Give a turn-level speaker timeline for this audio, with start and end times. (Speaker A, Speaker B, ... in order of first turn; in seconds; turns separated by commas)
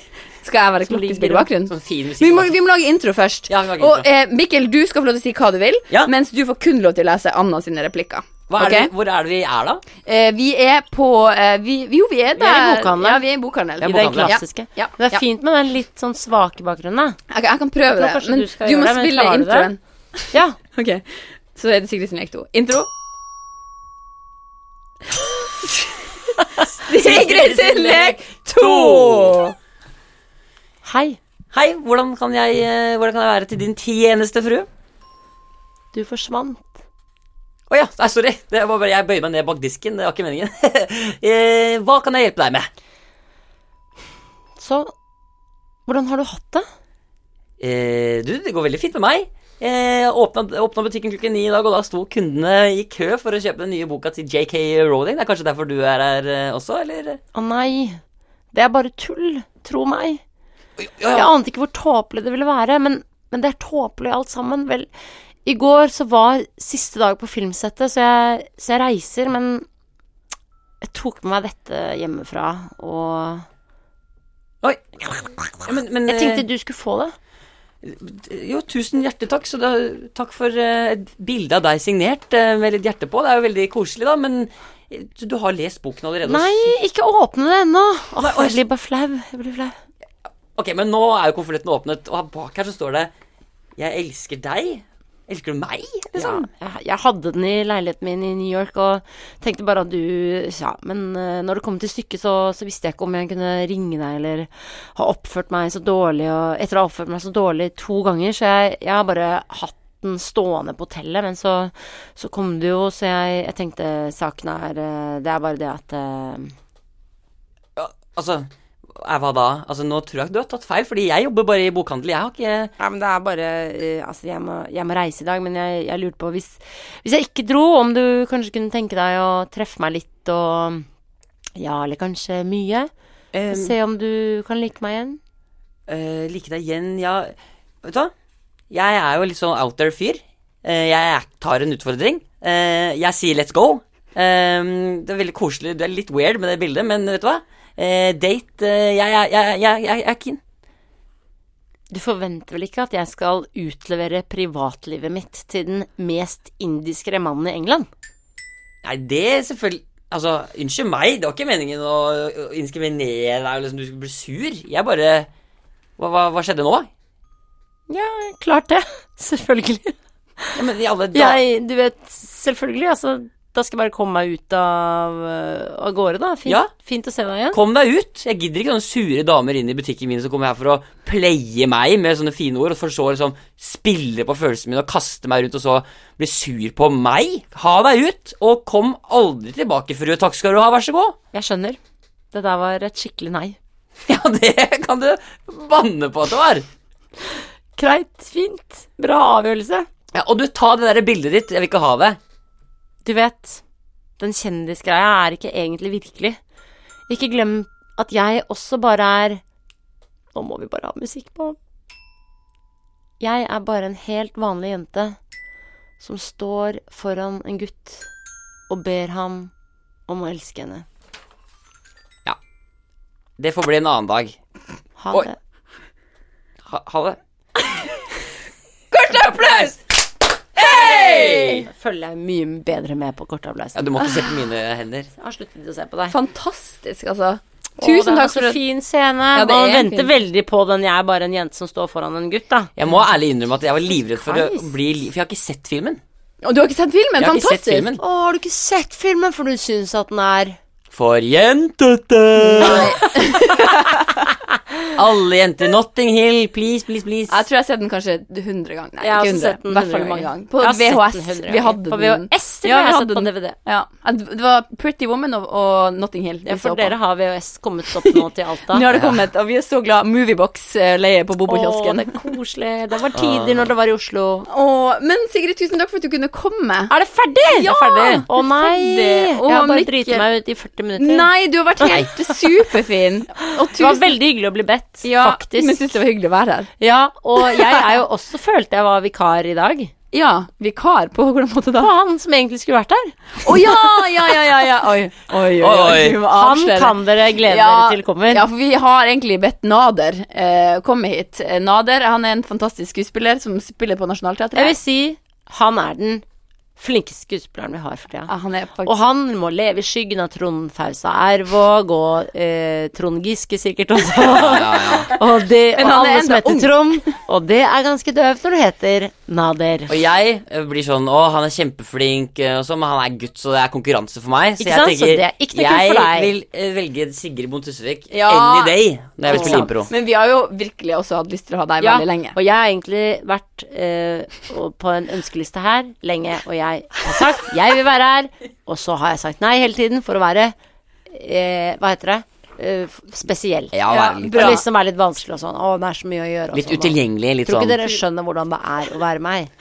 Speaker A: 0.4-8.9, Speaker B: 0.9-1.5, Speaker C: 1.7-2.5, Speaker C: 3.5-4.0, Speaker C: 8.5-9.8, Speaker A: 10.0-15.2, Speaker B: 12.4-13.2, Speaker C: 13.8-14.4, Speaker B: 13.8-17.2, Speaker A: 17.3-22.9, Speaker B: 17.9-19.7, Speaker B: 20.3-20.6, Speaker A: 25.6-25.9, Speaker A: 26.5-29.5, Speaker C: 26.7-29.4, Speaker B: 30.8-31.2, Speaker C: 31.5-34.7, Speaker B: 35.9-36.7, Speaker C: 37.7-42.7, Speaker B: 44.6-44.9, Speaker B: 45.9-46.6, Speaker C: 47.6-57.2, Speaker B: 57.3-58.0, Speaker B: 58.5-60.2, Speaker C: 60.8-61.3, Speaker B: 61.1-64.9, Speaker B: 65.5-69.7, Speaker B: 70.8-73.5, Speaker C: 74.6-76.5, Speaker B: 76.1-77.2, Speaker C: 77.8-86.8, Speaker B: 86.2-89.7, Speaker C: 88.2-88.6, Speaker C: 90.6-93.1, Speaker C: 93.8-96.5, Speaker B: 96.2-116.5, Speaker C: 117.8-122.7, Speaker B: 122.8-130.9, Speaker B: 131.6-132.9, Speaker C: 133.3-133.8, Speaker B: 133.5-135.2, Speaker C: 135.9-138.1, Speaker C: 138.7-150.4, Speaker B: 151.9-157.9, Speaker C: 158.8-165.3, Speaker C: 166.0-166.9, Speaker B: 167.9-170.6, Speaker C: 170.5-171.4, Speaker B: 171.1-177.6, Speaker C: 177.5-191.2, Speaker B: 191.3-191.8, Speaker B: 192.3-193.6, Speaker C: 194.1-196.7, Speaker B: 197.8-199.9, Speaker C: 200.1-202.2, Speaker B: 203.1-203.6, Speaker B: 204.2-206.4, Speaker B: 207.1-209.4, Speaker B: 210.3-211.6, Speaker B: 213.2-215.2, Speaker B: 216.0-218.1, Speaker B: 218.7-219.5, Speaker B: 220.1-220.9, Speaker C: 223.4-224.4, Speaker B: 225.0-225.4, Speaker C: 226.7-227.2, Speaker A: 228.9-229.8, Speaker C: 229.1-229.8, Speaker C: 230.6-231.7, Speaker A: 230.6-231.5, Speaker B: 230.6-234.3, Speaker C: 233.8-235.1, Speaker B: 235.2-236.2, Speaker A: 236.1-238.6, Speaker B: 237.8-242.7, Speaker A: 239.3-240.1, Speaker C: 242.8-246.0, Speaker B: 244.2-244.7, Speaker A: 246.4-247.9, Speaker C: 247.2-248.0, Speaker B: 248.0-250.6, Speaker C: 250.9-253.1, Speaker B: 252.4-253.0, Speaker A: 252.6-254.2, Speaker C: 254.9-257.4, Speaker A: 257.3-266.9, Speaker B: 259.0-263.6, Speaker B: 266.5-268.9, Speaker A: 268.0-272.1, Speaker C: 268.9-269.2, Speaker B: 271.5-274.5, Speaker C: 273.1-273.7, Speaker A: 274.5-276.9, Speaker B: 276.9-282.0, Speaker A: 277.5-280.3, Speaker C: 277.9-278.2, Speaker A: 281.0-284.1, Speaker B: 283.6-285.9, Speaker A: 285.0-286.7, Speaker B: 286.8-289.9, Speaker A: 287.4-287.8, Speaker A: 290.1-291.9, Speaker B: 291.8-293.1, Speaker A: 293.4-304.8, Speaker C: 295.6-296.2, Speaker B: 296.3-298.5, Speaker B: 304.6-306.2, Speaker B: 306.8-308.3, Speaker A: 308.3-308.9, Speaker B: 308.9-320.0, Speaker C: 314.1-315.1, Speaker A: 315.7-317.1, Speaker C: 319.9-329.9, Speaker B: 324.6-326.3, Speaker A: 328.1-332.4, Speaker B: 329.3-329.7, Speaker B: 331.8-340.6, Speaker B: 341.1-343.7, Speaker C: 343.7-344.6, Speaker A: 343.9-344.6, Speaker B: 344.3-349.5, Speaker C: 346.5-347.8